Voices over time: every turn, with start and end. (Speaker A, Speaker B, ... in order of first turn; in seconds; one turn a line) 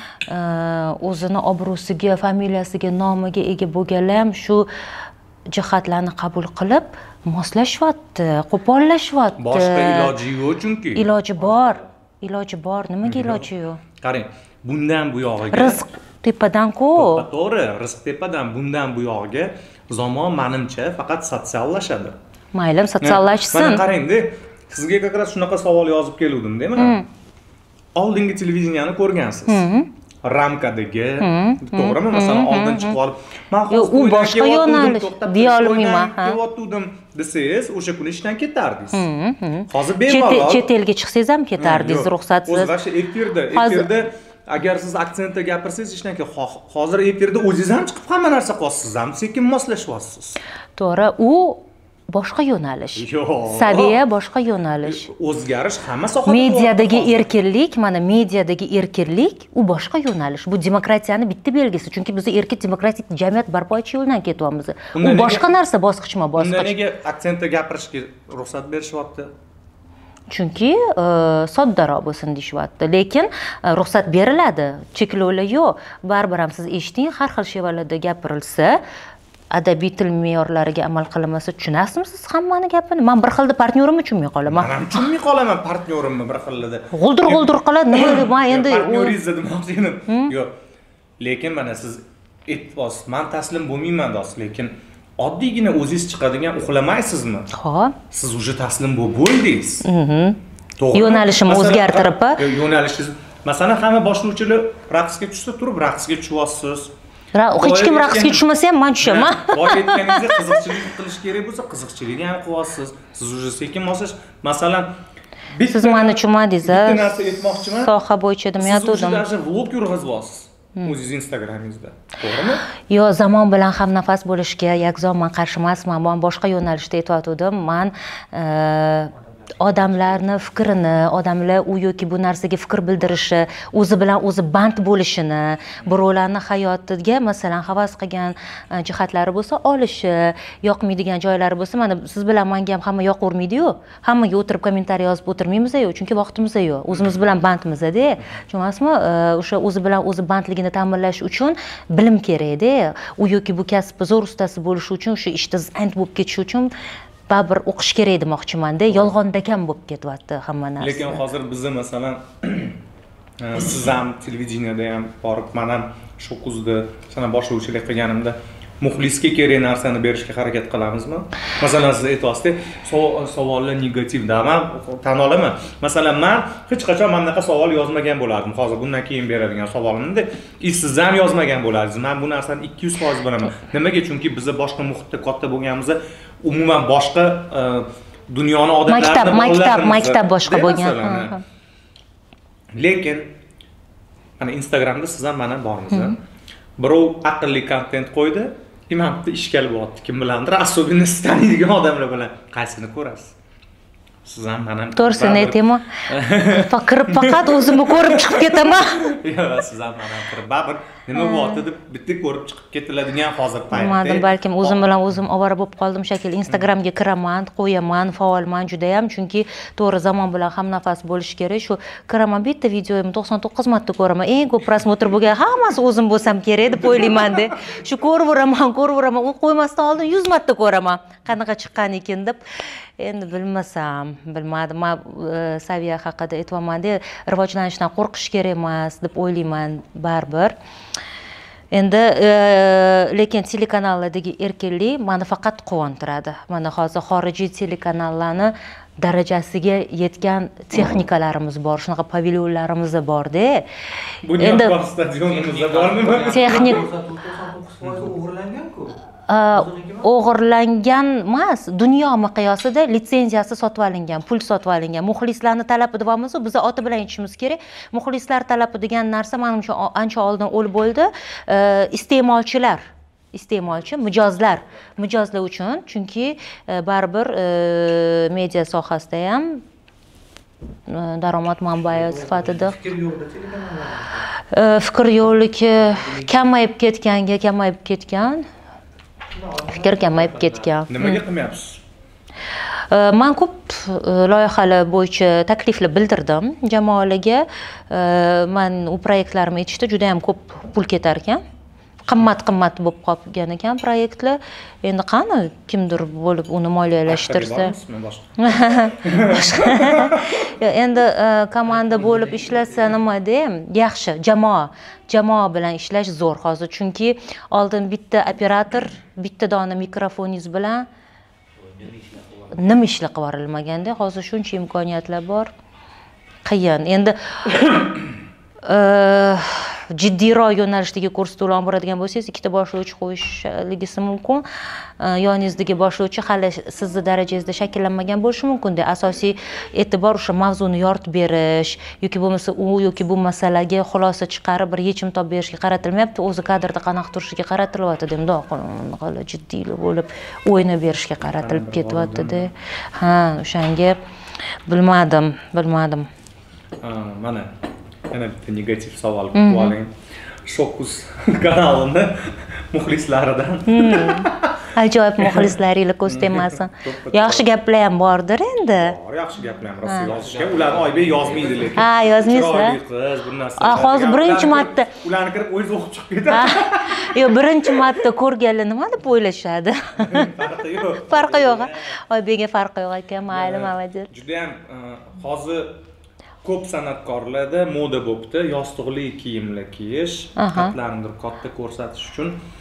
Speaker A: 0.3-4.7
Speaker A: 5.5-10.2
Speaker B: 9.4-11.8
Speaker A: 10.9-13.8
Speaker B: 13.0-15.9
Speaker A: 15.5-17.2
Speaker B: 16.9-22.1
Speaker A: 22.5-23.8
Speaker B: 23.0-27.0
Speaker A: 26.8-27.0
Speaker B: 27.9-29.6
Speaker A: 29.5-29.9
Speaker B: 30.2-39.0
Speaker A: 31.2-33.0
Speaker A: 33.7-36.4
Speaker A: 38.9-42.7
Speaker B: 39.7-40.7
Speaker B: 41.6-50.4
Speaker A: 43.5-43.9
Speaker A: 50.8-55.0
Speaker B: 53.0-54.0
Speaker B: 54.8-57.3
Speaker A: 56.2-66.8
Speaker B: 64.9-65.5
Speaker B: 66.4-69.3
Speaker A: 70.3-78.8
Speaker A: 79.5-85.1
Speaker B: 84.5-90.5
Speaker A: 86.9-89.2
Speaker A: 90.1-90.3
Speaker B: 91.2-97.5
Speaker A: 97.5-98.0
Speaker B: 98.1-99.9
Speaker A: 99.8-100.4
Speaker B: 100.8-106.9
Speaker A: 100.9-102.4
Speaker A: 107.3-110.6
Speaker B: 107.5-108.4
Speaker B: 109.0-115.0
Speaker B: 115.5-117.9
Speaker A: 115.6-119.2
Speaker B: 118.6-122.6
Speaker A: 122.9-156.7
Speaker A: 157.3-161.2
Speaker B: 158.9-159.1
Speaker B: 160.8-162.8
Speaker B: 163.4-191.4
Speaker A: 188.9-191.4
Speaker B: 192.7-193.4
Speaker B: 194.4-196.2
Speaker B: 196.8-203.3
Speaker B: 204.2-214.8
Speaker A: 204.9-209.1
Speaker A: 211.2-211.6
Speaker A: 213.7-232.4
Speaker A: 233.0-240.6
Speaker A: 241.7-253.6
Speaker B: 254.2-256.9
Speaker A: 254.4-254.8
Speaker C: 255.2-259.0
Speaker A: 256.3-256.8
Speaker A: 259.3-279.6
Speaker C: 259.5-260.1
Speaker A: 280.9-282.7
Speaker C: 281.9-284.3
Speaker A: 284.5-288.4
Speaker C: 285.9-286.3
Speaker C: 289.3-290.7
Speaker A: 289.7-291.2
Speaker B: 290.9-291.8
Speaker A: 292.9-301.4
Speaker A: 302.1-307.7
Speaker B: 307.1-310.4
Speaker A: 308.4-320.9
Speaker C: 311.8-312.9
Speaker C: 321.6-322.6
Speaker A: 322.5-325.5
Speaker A: 326.4-327.9
Speaker A: 328.6-334.4
Speaker A: 335.0-354.0
Speaker B: 351.4-352.5
Speaker A: 354.7-356.1
Speaker B: 356.8-357.5
Speaker B: 358.1-364.6
Speaker A: 359.3-359.7
Speaker A: 363.7-368.9
Speaker B: 365.2-365.5
Speaker B: 366.1-367.5
Speaker B: 368.7-377.3
Speaker A: 369.8-370.1
Speaker C: 370.0-371.8
Speaker A: 371.7-372.8
Speaker A: 373.6-374.9
Speaker A: 376.3-380.3
Speaker B: 380.0-381.9
Speaker A: 380.9-384.1
Speaker B: 383.3-385.8
Speaker B: 386.4-392.4
Speaker A: 390.4-390.7